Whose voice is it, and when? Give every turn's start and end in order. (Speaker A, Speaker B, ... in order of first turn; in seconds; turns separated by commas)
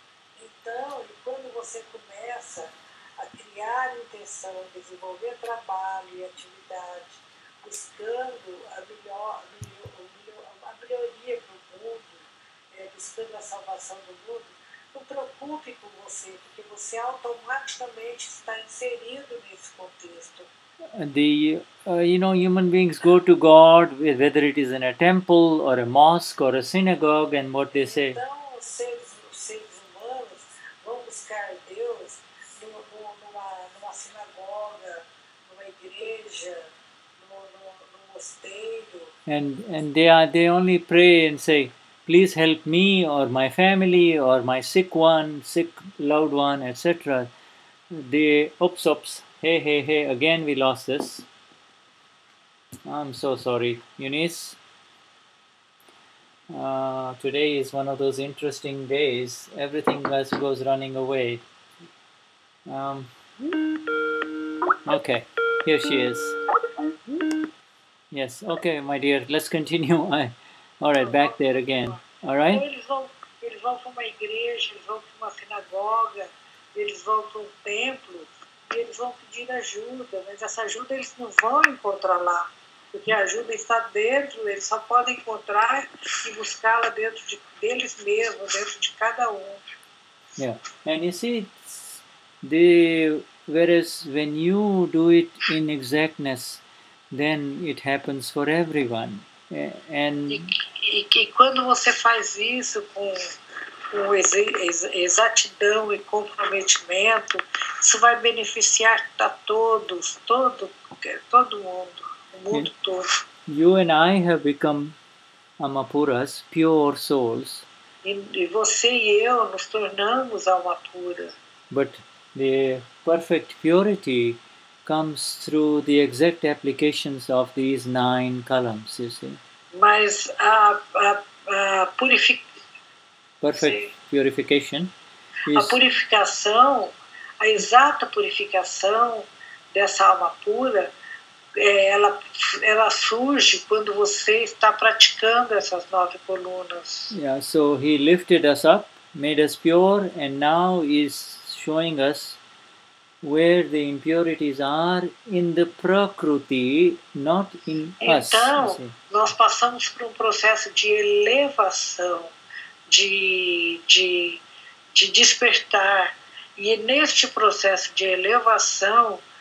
Speaker A: 0.4-20.5, Speaker B: 21.0-28.2, Speaker A: 27.7-36.7, Speaker A: 37.2-39.1, Speaker B: 39.3-47.3, Speaker B: 47.9-51.3, Speaker B: 52.9-54.6, Speaker B: 56.5-61.4, Speaker B: 62.7-63.1, Speaker B: 64.9-66.4, Speaker B: 68.1-72.7, Speaker A: 71.0-89.6, Speaker B: 90.4-100.5, Speaker A: 100.3-103.3, Speaker A: 103.9-113.1, Speaker B: 113.5-115.0, Speaker B: 115.6-117.7, Speaker A: 118.0-121.3, Speaker B: 121.7-129.4, Speaker A: 129.7-132.4, Speaker B: 133.4-134.9, Speaker A: 133.5-133.9, Speaker B: 135.5-135.8, Speaker A: 135.5-140.9, Speaker A: 141.6-147.2, Speaker B: 147.1-152.4, Speaker B: 153.2-158.9, Speaker A: 158.0-162.3, Speaker A: 162.9-164.4, Speaker A: 164.9-169.2